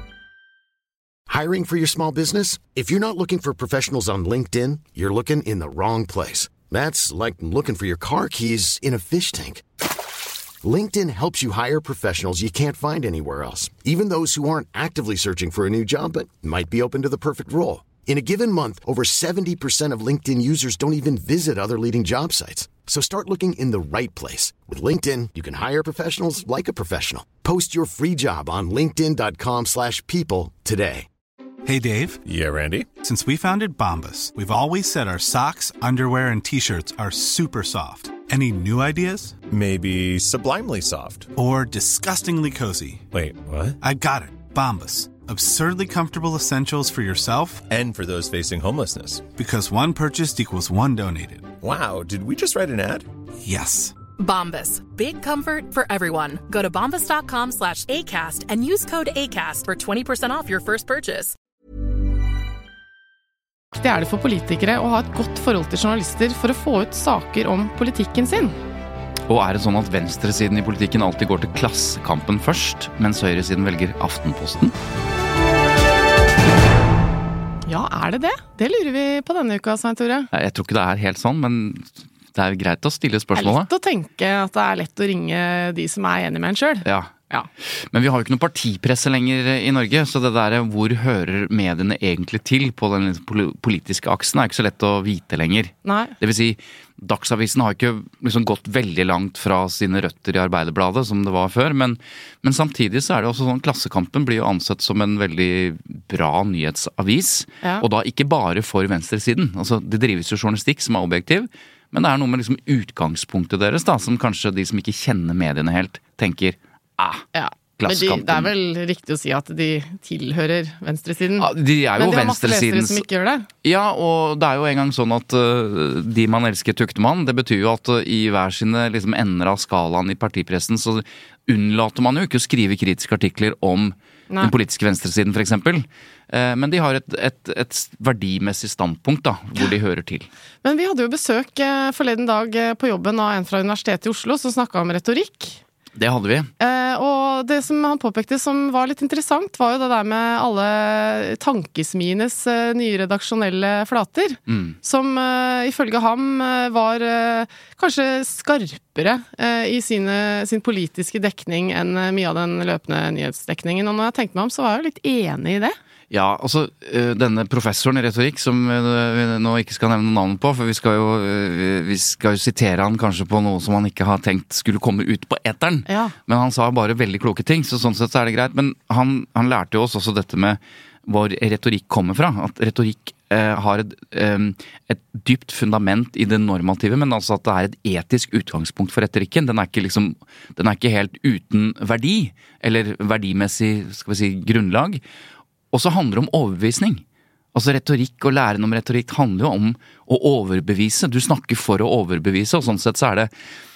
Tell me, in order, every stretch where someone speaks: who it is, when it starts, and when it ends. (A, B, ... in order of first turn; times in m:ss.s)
0:01.3-0:09.6 A
0:10.6-0:31.1 A
0:31.6-0:32.2 B
0:32.2-0:32.9 C
0:33.0-0:39.4 B
0:39.5-0:41.3 C
0:41.4-0:43.1 B
0:43.1-0:43.8 C
0:43.8-0:47.7 B
0:47.7-0:49.3 C
0:49.4-0:51.5 B
0:51.6-0:53.1 C
0:53.4-0:54.0 B
0:54.2-1:01.4 D
1:03.7-1:08.6 E
1:09.3-1:14.7 F
1:17.7-1:20.3 E
1:20.3-1:23.7 F
1:23.4-1:27.5 E
1:26.8-1:27.1 F
1:27.8-1:57.3 F
1:35.8-1:36.2 E
1:57.4-2:03.5 E
1:57.8-1:58.5 F
2:01.4-2:03.0 F
2:03.6-2:20.3 F
2:20.6-2:25.6 E
2:26.0-2:26.5 F
2:26.6-2:45.8 E
2:34.5-2:34.8 F
2:46.1-3:15.0 F
2:55.9-2:56.2 E
3:15.7-3:23.3 F